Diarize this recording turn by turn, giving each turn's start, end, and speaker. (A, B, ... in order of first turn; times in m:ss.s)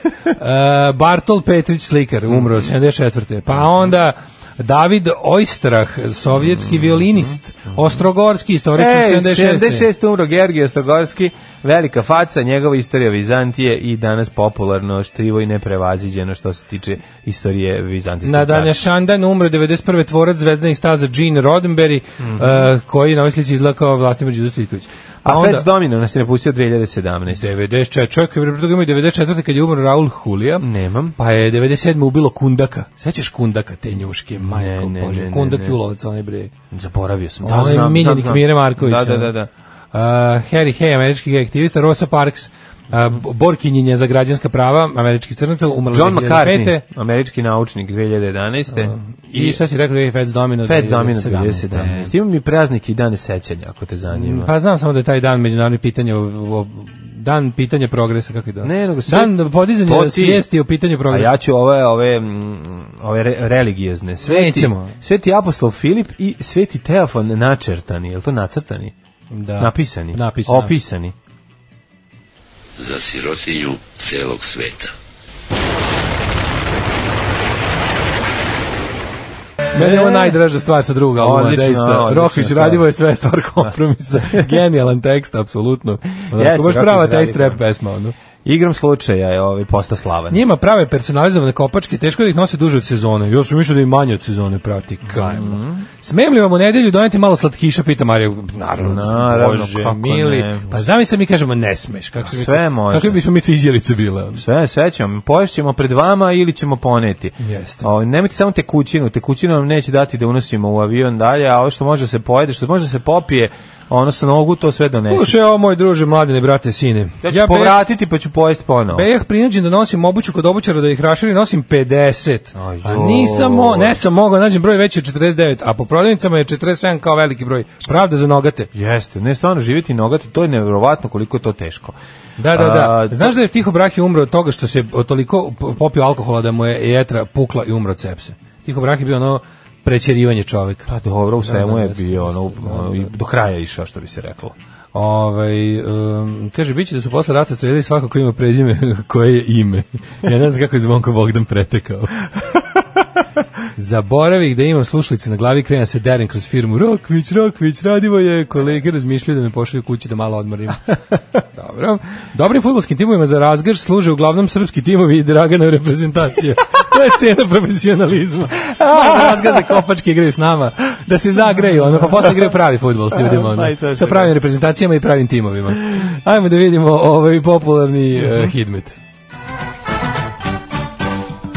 0:00.2-0:09.9 A
0:02.3-0:02.7 B
0:06.3-0:08.0 B
0:08.7-0:18.8 B
0:18.2-0:25.6 A
0:22.2-0:22.7 B
0:25.2-0:27.4 B
0:27.3-0:30.6 A
0:30.6-0:31.2 B
0:31.2-0:36.5 A
0:34.4-0:35.8 B
0:36.7-0:39.5 B
0:37.4-0:39.3 A
0:39.9-0:46.8 A
0:45.9-0:49.6 B
0:48.7-0:52.1 A
0:50.6-0:54.5 B
0:54.1-1:01.3 A
0:58.6-1:00.4 B
1:01.1-1:08.9 B
1:04.2-1:05.0 A
1:09.3-1:10.7 A
1:09.6-1:11.1 B
1:12.8-1:14.9 C
1:19.7-1:28.1 A
1:19.7-1:20.4 B
1:21.2-1:22.9 B
1:26.3-1:27.6 B
1:28.4-1:30.4 B
1:30.3-1:44.4 A
1:35.0-1:35.8 B
1:38.8-1:40.8 B
1:42.2-1:43.2 B
1:44.4-1:55.4 B
1:47.4-1:47.8 A
1:55.1-1:57.8 A
1:57.2-1:59.1 B
1:58.9-2:08.7 A
2:02.5-2:04.0 B
2:08.7-2:12.0 B
2:12.4-2:20.9 A
2:12.5-2:13.4 B
2:20.9-2:24.5 B
2:21.4-2:23.1 A
2:24.9-2:32.2 A
2:33.8-2:59.0 A
2:48.8-2:49.8 B
2:51.9-2:52.5 B
2:53.1-2:54.3 B